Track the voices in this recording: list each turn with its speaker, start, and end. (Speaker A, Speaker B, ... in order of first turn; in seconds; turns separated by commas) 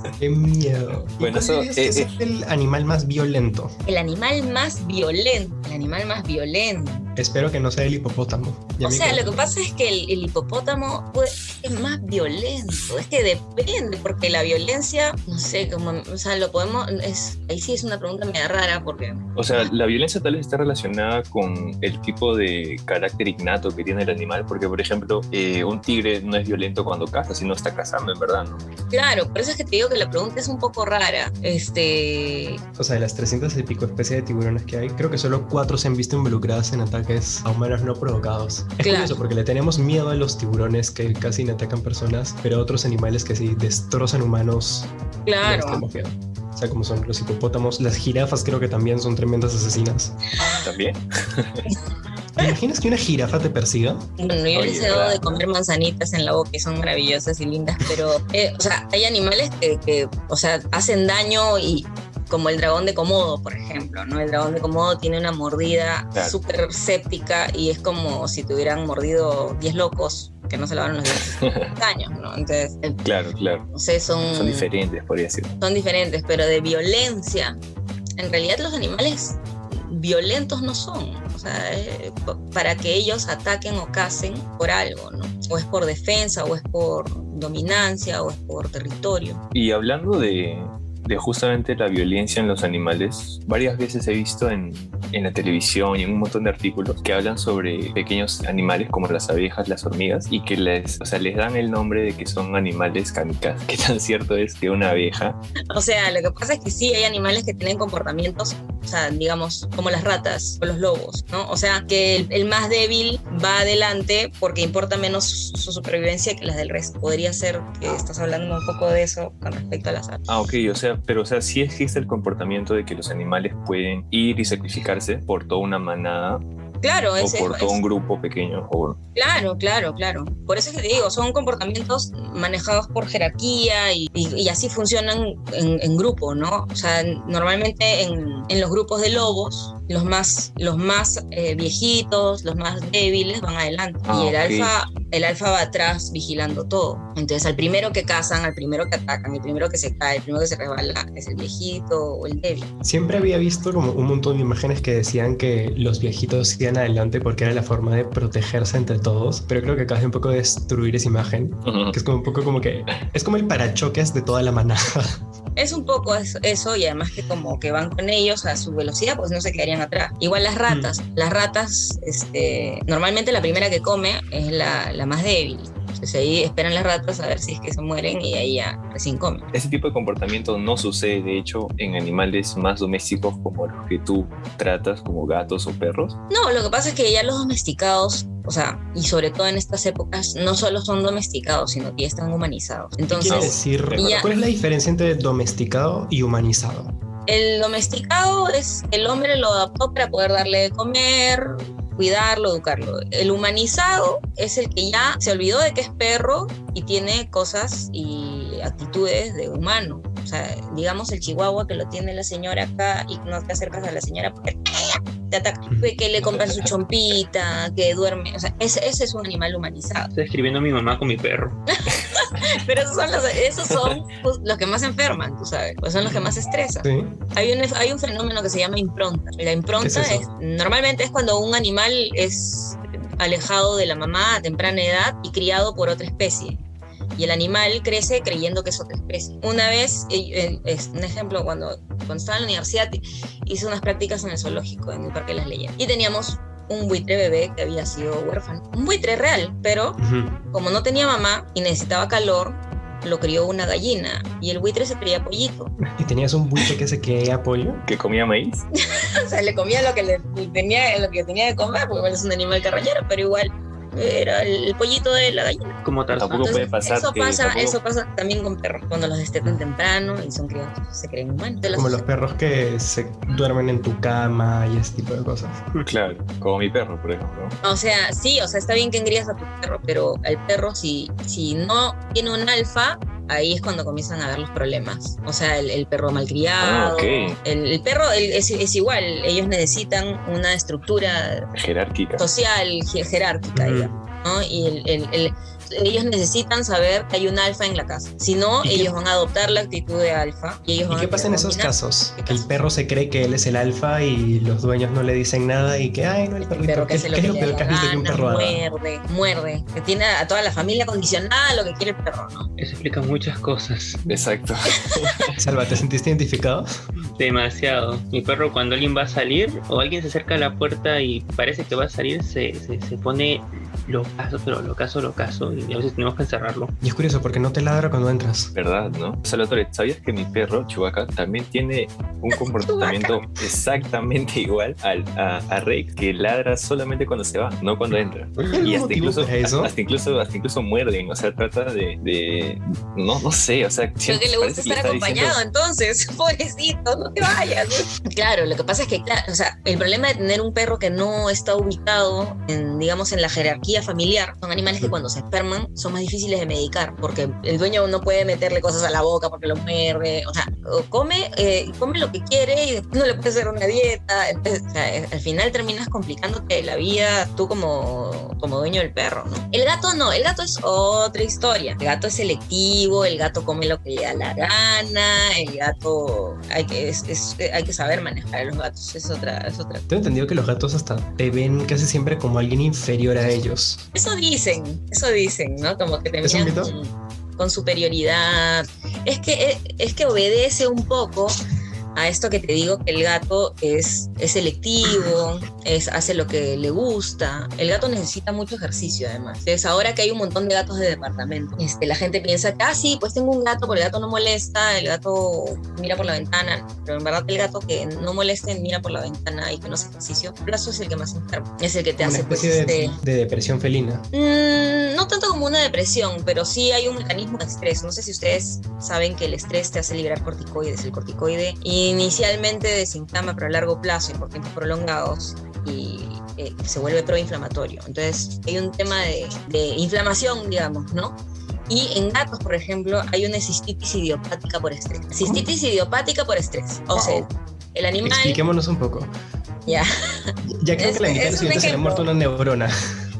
Speaker A: 0.2-3.7, Speaker B: 1.2-2.1, Speaker C: 3.9-7.1, Speaker A: 7.2-9.4, Speaker C: 8.8-19.7, Speaker B: 19.4-28.6, Speaker C: 28.9-32.6, Speaker A: 32.8-44.9, Speaker C: 38.8-39.1, Speaker C: 45.3-45.8, Speaker A: 45.4-50.2, Speaker C: 50.4-50.7, Speaker B: 50.6-51.6, Speaker A: 52.4-54.1, Speaker C: 54.2-73.0, Speaker B: 54.5-55.5, Speaker B: 71.2-71.7, Speaker B: 73.0-73.7, Speaker C: 73.7-74.7, Speaker B: 74.3-75.5, Speaker C: 75.6-77.6, Speaker C: 78.2-89.4, Speaker B: 89.5-105.4, Speaker C: 105.7-120.2, Speaker B: 120.3-126.4, Speaker C: 126.8-127.8, Speaker B: 127.2-129.0, Speaker C: 129.2-152.7, Speaker B: 144.1-144.7, Speaker A: 152.8-165.2, Speaker B: 161.7-162.0, Speaker C: 165.6-179.5, Speaker A: 170.7-171.0, Speaker B: 179.5-186.2, Speaker C: 186.3-194.3, Speaker A: 193.1-196.9, Speaker B: 193.3-194.1, Speaker C: 197.3-220.1, Speaker D: 220.1-221.6, Speaker C: 221.7-236.6, Speaker A: 226.8-227.2, Speaker A: 229.8-230.3, Speaker C: 237.2-250.0, Speaker A: 250.0-250.4, Speaker C: 250.5-255.7, Speaker A: 255.9-257.8, Speaker B: 257.9-258.6, Speaker C: 258.9-265.8, Speaker D: 265.8-266.6, Speaker B: 266.2-267.8, Speaker C: 266.3-272.0, Speaker A: 271.7-275.6, Speaker B: 275.8-277.6, Speaker C: 277.6-291.5, Speaker B: 286.6-287.4, Speaker B: 291.5-292.2, Speaker C: 292.2-302.5, Speaker A: 293.6-294.0, Speaker A: 298.6-298.9, Speaker A: 300.9-308.6, Speaker C: 306.4-312.5, Speaker D: 312.6-314.0, Speaker B: 314.1-315.4, Speaker A: 315.4-316.7, Speaker D: 317.1-326.7, Speaker A: 326.8-328.5, Speaker B: 328.6-345.4, Speaker C: 332.4-333.2, Speaker A: 338.5-339.7, Speaker C: 344.1-379.9, Speaker A: 379.9-383.8, Speaker C: 383.9-391.4, Speaker A: 386.2-386.8, Speaker C: 391.9-413.0, Speaker A: 412.0-414.1, Speaker C: 414.1-431.2, Speaker C: 431.7-438.4, Speaker B: 436.9-437.2, Speaker A: 438.0-439.1, Speaker C: 439.7-442.1, Speaker A: 440.4-442.8